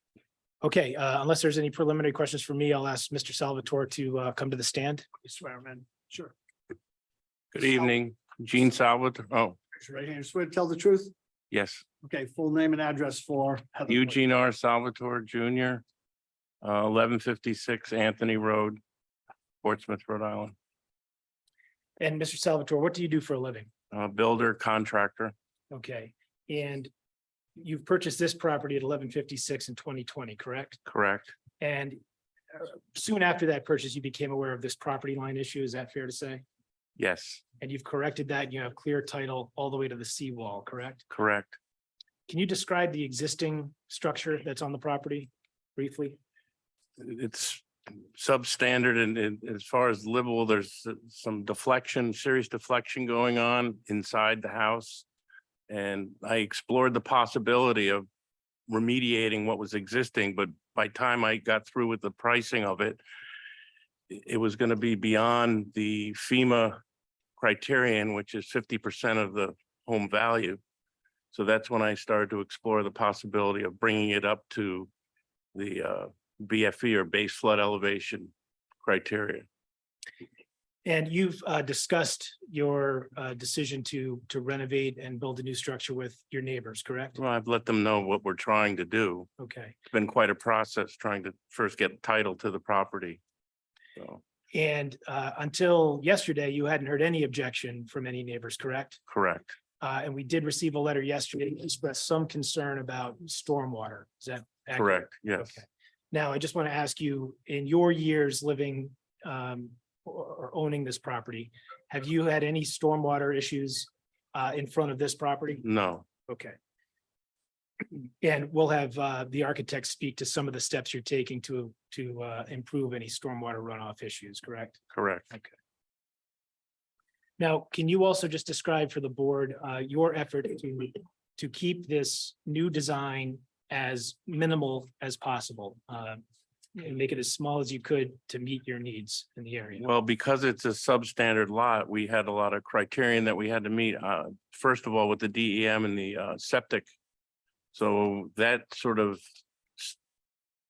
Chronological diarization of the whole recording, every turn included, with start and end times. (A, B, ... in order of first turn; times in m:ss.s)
0:00.6-0:05.1 A
0:05.2-0:06.3 B
0:07.5-0:09.6 C
0:09.8-0:11.1 B
0:11.5-0:11.8 C
0:12.0-0:14.2 B
0:13.9-0:15.8 C
0:16.6-0:18.8 C
0:19.6-0:20.6 C
0:22.0-0:23.7 A
0:23.9-0:25.3 C
0:25.7-0:26.9 A
0:27.6-0:30.8 A
0:30.9-0:31.3 C
0:31.6-0:32.0 A
0:32.5-0:36.4 A
0:37.0-0:37.4 C
0:37.6-0:41.0 A
0:41.1-0:41.6 C
0:42.3-0:46.2 A
0:47.0-0:55.0 C
0:55.7-0:58.1 C
0:58.7-1:03.0 C
1:04.1-1:06.8 C
1:07.4-1:10.6 C
1:11.3-1:14.9 C
1:15.5-1:19.5 C
1:20.8-1:27.2 A
1:27.2-1:29.3 C
1:29.4-1:29.8 A
1:29.9-1:33.2 C
1:34.5-1:39.0 A
1:39.1-1:39.6 C
1:39.8-1:55.6 A
1:44.8-1:45.6 C
1:55.6-1:56.0 C
1:56.3-1:56.6 A
1:57.9-2:04.8 A
2:04.9-2:05.3 C
2:07.4-2:16.2 A
2:16.8-2:19.8 A
2:19.8-2:26.9 C
2:27.7-2:29.2 C